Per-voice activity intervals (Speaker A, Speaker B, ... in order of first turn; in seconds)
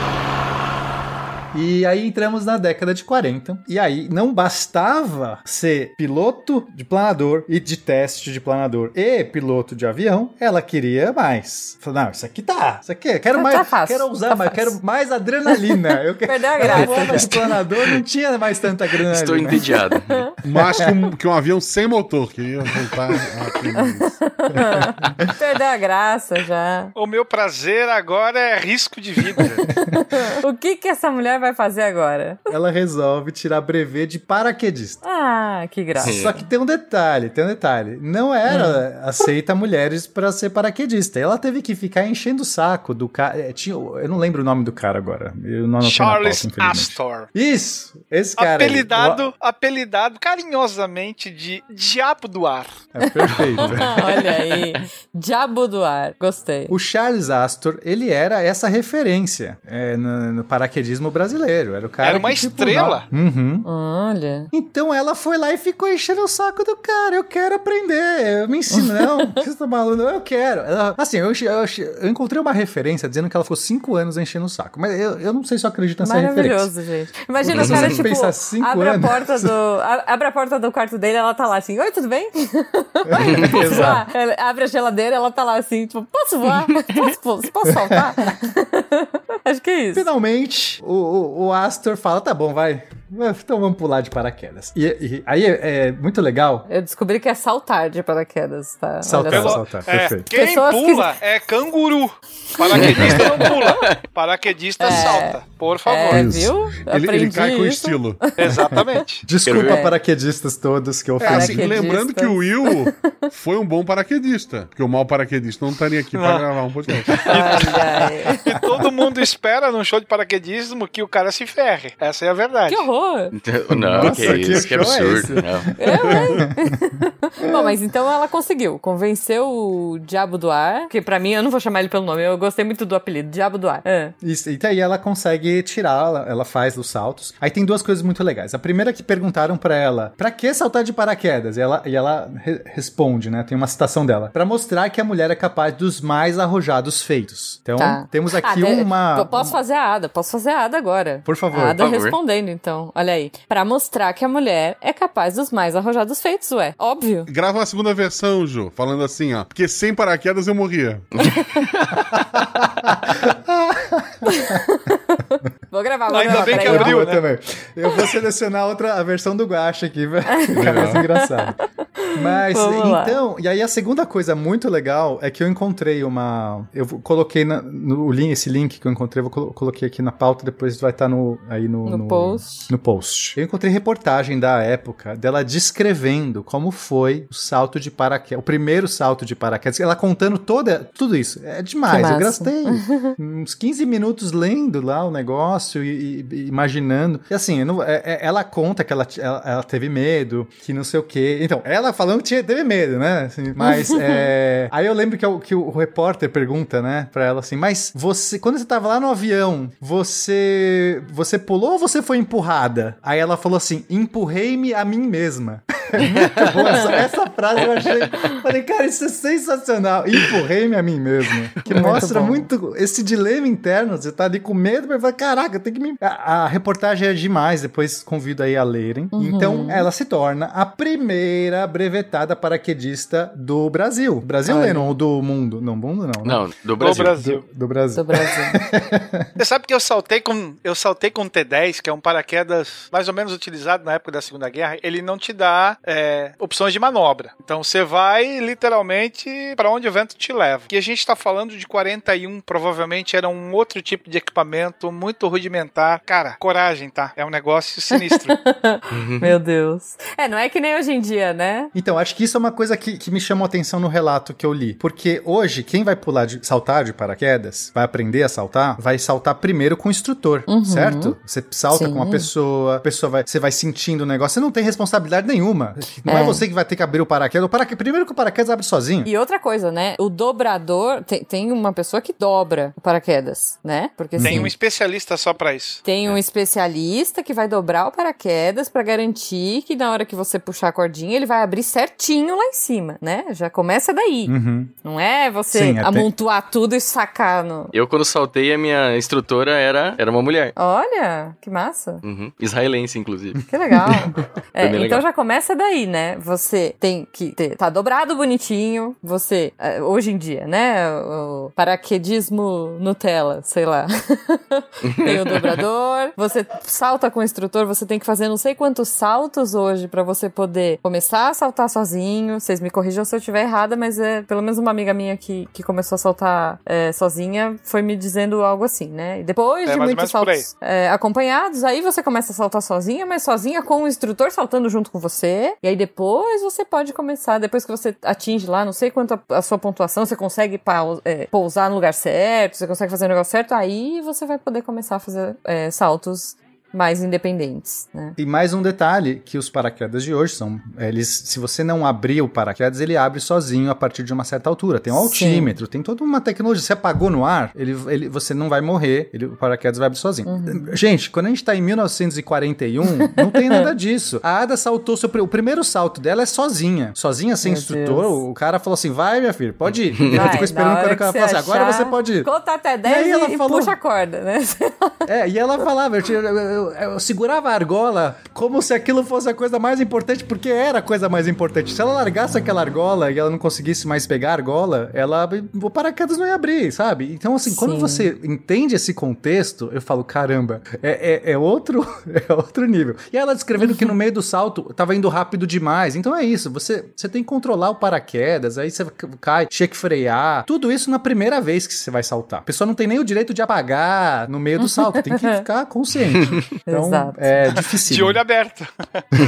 Speaker A: 1.5-19.6, 32.5-35.0, 36.0-49.3, 52.9-54.1, 56.7-63.7, 64.5-76.7, 77.4-79.5, 83.1-84.0, 89.9-96.7, 99.0-100.2, 109.2-111.7, 123.8-125.6, 134.2-149.6, 151.2-151.8, 162.6-164.6, 166.2-171.6, 172.1-239.3, 261.7-279.1, 284.1-284.5, 294.3-294.7, 295.5-296.1, 348.2-372.3, 372.8-373.7, 375.1-408.2
Speaker B: 13.3-14.8, 15.5-17.5, 23.8-26.9, 29.8-32.4, 35.0-36.2, 38.5-38.8, 53.9-56.7, 63.6-64.5, 68.7-69.4, 76.0-90.1, 96.7-99.6, 100.3-101.1, 102.8-103.5, 104.8-108.8, 109.5-110.0, 111.3-113.2, 117.3-118.4, 122.7-123.3, 125.8-134.1, 147.8-157.3, 164.3-166.9, 170.3-173.2, 181.8-182.7, 191.9-193.1, 203.6-204.2, 221.7-222.5, 229.1-229.9, 234.4-234.9, 237.9-238.6, 257.9-261.7, 270.5-271.1, 271.7-272.3, 276.1-276.4, 279.0-284.5, 285.8-297.7, 300.6-302.0, 303.5-348.2, 354.9-355.5, 360.2-360.8, 363.2-363.6, 367.4-368.2, 370.1-375.0, 387.5-388.1, 393.6-393.9, 404.6-405.4, 406.7-407.4
Speaker C: 16.7-17.2, 19.1-20.2, 36.0-36.3, 77.5-78.0, 83.2-83.7, 102.7-104.0, 109.4-109.8, 123.4-125.7, 151.8-152.2, 161.2-162.1, 236.2-237.1, 258.9-259.3, 297.7-300.5, 302.0-303.4, 304.6-305.0, 314.8-315.4, 370.0-370.4
Speaker D: 20.4-24.6, 106.1-108.3, 111.2-117.3, 123.8-125.0, 157.3-161.1, 170.5-171.0
Speaker E: 26.9-29.6, 45.8-47.3, 48.4-52.8, 62.0-63.0, 99.3-106.4, 108.4-109.2, 116.1-116.5, 117.1-122.9, 166.1-167.2, 236.8-237.4, 239.4-258.3, 284.2-285.8, 329.6-330.5, 407.9-409.1